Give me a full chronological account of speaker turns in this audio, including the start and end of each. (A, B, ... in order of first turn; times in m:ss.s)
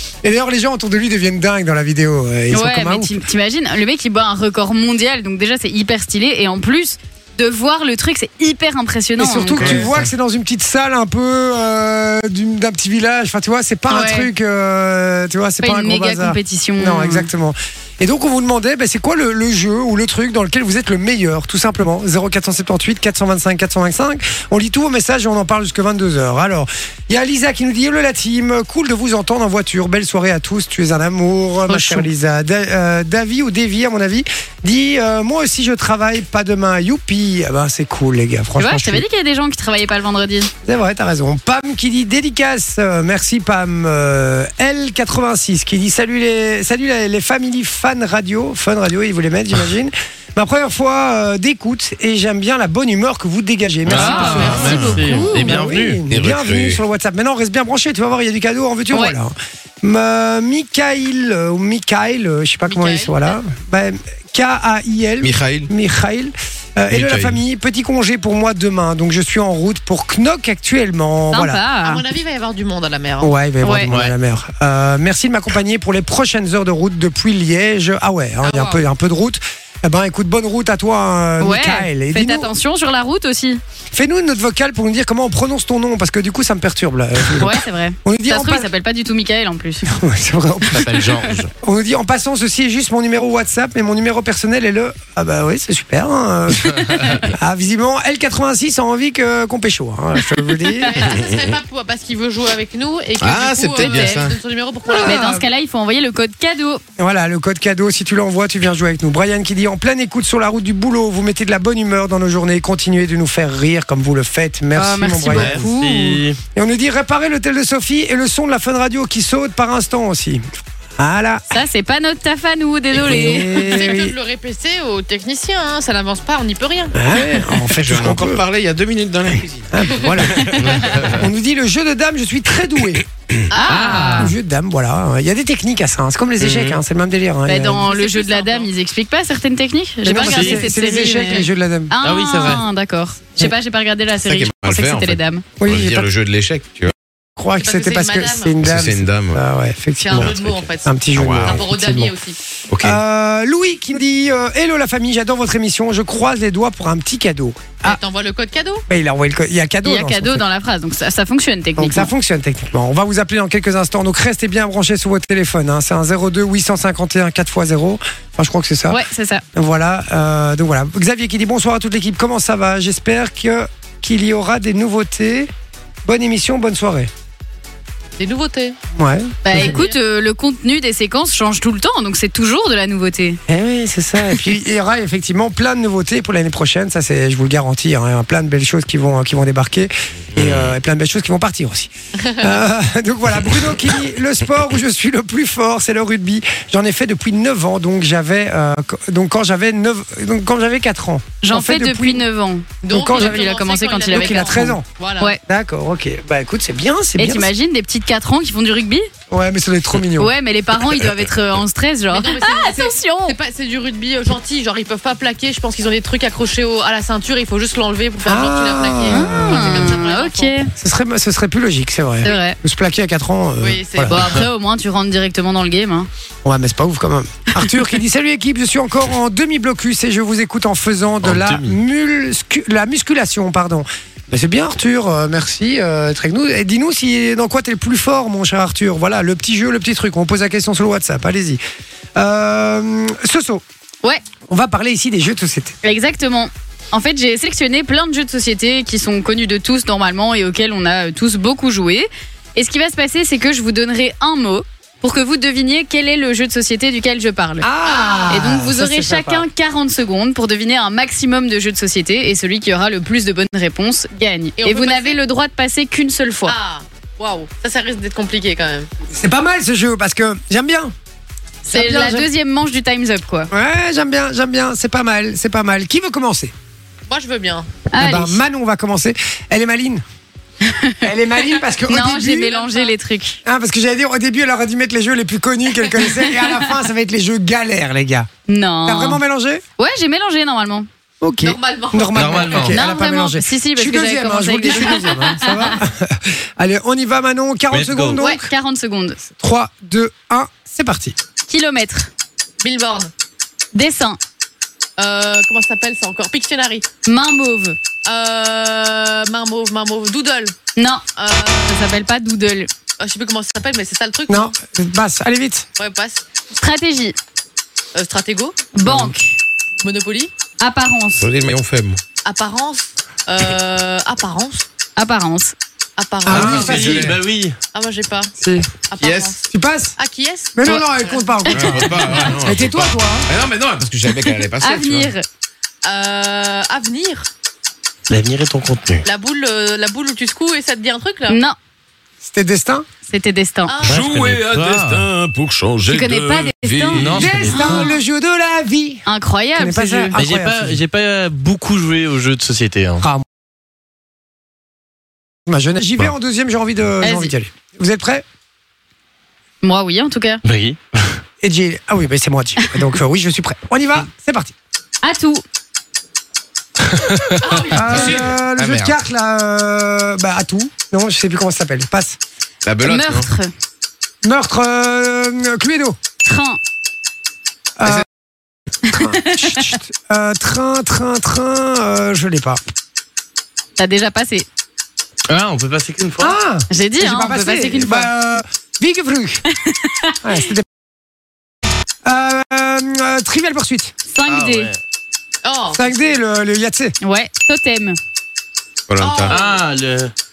0:00.2-0:03.1 A
0:02.5-0:09.9 B
0:09.2-0:39.0 A
0:09.5-0:10.1 C
0:13.9-0:14.3 B
0:15.6-0:17.3 B
0:31.7-0:32.1 B
0:38.6-0:40.5 B
0:40.6-1:11.6 A
0:53.9-0:56.0 D
0:53.9-0:55.1 C
0:53.9-0:55.5 B
0:54.2-0:55.6 E
0:56.1-0:56.8 C
1:02.7-1:03.4 E
1:05.2-1:05.7 C
1:06.9-1:07.4 C
1:11.3-1:12.0 B
1:11.8-1:13.3 E
1:13.2-1:22.5 A
1:13.6-1:13.9 B
1:18.4-1:18.8 E
1:21.4-1:23.6 B
1:23.9-1:28.7 A
1:27.4-1:29.8 B
1:29.8-1:41.1 A
1:30.7-1:31.5 D
1:37.0-1:37.2 B
1:40.8-1:45.4 E
1:41.1-1:41.5 C
1:43.2-1:44.4 C
1:43.8-1:44.2 B
1:44.9-1:45.4 A
1:44.9-1:46.8 B
1:47.0-1:55.7 A
1:54.8-1:56.2 B
1:55.3-1:56.4 D
1:56.5-2:00.4 A
2:01.0-2:01.5 A
2:01.5-2:03.7 B
2:02.9-2:04.1 A
2:03.2-2:06.9 E
2:06.9-2:08.4 A
2:07.7-2:11.2 C
2:09.7-2:13.0 A
2:10.6-2:11.2 D
2:13.5-2:13.9 E
2:13.5-2:14.3 B
2:13.7-2:14.3 D
2:13.7-2:17.8 A
2:16.4-2:16.8 D
2:17.5-2:25.4 B
2:17.8-2:18.7 E
2:20.0-2:21.9 A
2:20.2-2:20.6 D
2:22.0-2:22.6 D
2:24.2-2:26.9 C
2:25.6-2:26.1 A
2:27.4-2:32.2 A
2:27.6-2:28.6 E
2:28.6-2:29.4 C
2:30.0-2:32.4 E
2:30.1-2:31.6 C
2:32.7-2:33.0 C
2:32.8-2:38.0 A
2:37.8-2:38.8 E
2:38.9-2:40.4 A
2:39.8-2:42.1 B
2:41.8-2:49.0 A
2:48.9-2:49.4 B
2:49.5-2:55.5 A
2:56.0-2:57.1 A
2:58.2-2:58.8 E
2:58.9-2:59.8 A
2:59.4-3:03.4 B
2:59.6-3:00.0 E
3:03.5-3:22.2 A
3:10.3-3:10.8 C
3:21.4-3:25.4 B
3:22.8-3:25.3 E
3:22.9-3:23.4 A
3:24.1-3:24.8 A
3:25.4-3:27.5 A
3:27.2-3:29.1 B
3:29.3-3:30.3 A
3:30.2-3:33.4 B
3:32.1-3:40.5 E
3:38.2-3:40.0 A
3:39.1-3:40.7 B
3:40.8-3:44.2 A
3:42.2-3:42.6 B
3:43.6-3:44.2 E
3:44.1-3:46.1 B
3:46.4-4:01.6 A
3:51.2-3:51.8 D
4:02.2-4:03.6 A
4:04.5-4:05.8 A
4:05.8-4:17.7 B
4:17.6-4:19.4 A
4:17.8-4:18.4 E
4:18.3-4:26.6 B
4:24.6-4:25.2 E
4:26.4-4:28.9 E
4:29.1-4:30.9 A
4:31.6-4:33.5 B
4:31.7-4:32.3 A
4:33.5-4:36.5 A
4:37.1-4:37.7 E
4:37.9-4:38.4 B
4:38.0-4:40.0 A
4:40.6-4:41.1 B
4:41.0-4:42.5 A
4:41.8-4:43.4 B
4:42.4-4:42.9 E
4:43.4-4:48.3 A
4:46.1-4:46.6 B
4:48.5-4:49.2 B
4:48.8-4:49.6 A
4:49.8-4:50.9 B
4:51.2-4:58.5 A
4:51.4-4:52.7 E
4:52.1-4:52.8 D
4:52.7-4:55.8 B
4:57.7-4:58.2 D
4:58.2-4:59.2 B
4:59.3-5:01.2 A
5:01.5-5:02.1 B
5:02.6-5:03.1 E
5:03.7-5:04.2 B
5:05.0-5:06.8 E
5:07.0-5:07.8 B
5:08.0-5:10.5 E
5:10.8-5:11.0 B
5:11.2-5:11.8 E
5:11.7-5:12.7 B
5:13.0-5:14.5 E
5:14.3-5:15.7 A
5:15.8-5:16.2 E
5:16.6-5:17.1 B
5:17.9-5:18.7 E
5:18.7-5:19.4 B
5:18.8-5:19.1 A
5:19.8-5:20.3 E
5:20.6-5:21.2 B
5:21.2-5:22.0 C
5:22.2-5:24.6 E
5:25.0-5:25.5 B
5:26.0-5:26.7 E
5:26.2-5:27.1 A
5:26.3-5:27.2 C
5:26.3-5:27.6 D
5:27.7-5:28.3 E
5:28.4-5:28.7 A
5:28.9-5:29.4 E
5:29.0-5:29.3 C
5:29.5-5:29.9 A
5:30.0-5:30.6 E
5:30.6-5:31.9 A
5:31.4-5:32.3 B
5:31.5-5:35.1 C
5:32.4-5:33.3 A
5:34.6-5:35.2 B
5:35.8-5:37.3 E
5:38.1-5:39.0 D
5:39.0-5:41.4 E
5:41.3-5:41.6 B
5:42.2-5:42.9 A
5:43.1-5:43.7 B
5:43.7-5:44.0 E
5:43.8-5:47.5 C
5:43.8-5:45.1 D
5:45.9-5:47.9 B
5:46.9-5:47.7 D
5:47.1-5:49.0 A
5:49.1-5:50.1 B
5:49.6-5:50.8 A
5:50.1-5:53.0 D
5:53.0-5:53.2 A
5:55.5-5:58.2 A
5:57.0-5:57.3 B
5:59.6-6:00.4 B
6:00.4-6:01.2 D
6:01.4-6:04.5 A
6:05.0-6:05.4 B
6:06.9-6:08.9 D
6:07.4-6:08.1 E
6:07.7-6:12.2 A
6:07.9-6:08.3 C
6:12.6-6:13.3 C
6:12.8-6:13.5 B
6:14.2-6:16.0 A
6:16.2-6:16.6 B
6:17.8-6:18.1 A
6:18.9-6:19.7 B
6:18.9-6:22.6 A
6:23.8-6:24.4 B
6:25.3-6:26.3 D
6:26.2-6:29.4 A
6:26.7-6:28.1 B
6:29.6-6:30.3 B
6:30.2-6:30.7 A
6:32.0-6:33.9 A
6:34.1-6:34.7 B
6:34.2-6:34.8 D
6:35.4-6:36.2 E
6:35.7-6:37.0 A
6:37.0-6:38.0 B
6:38.9-6:39.4 C
6:39.0-6:39.6 E
6:39.3-6:40.1 D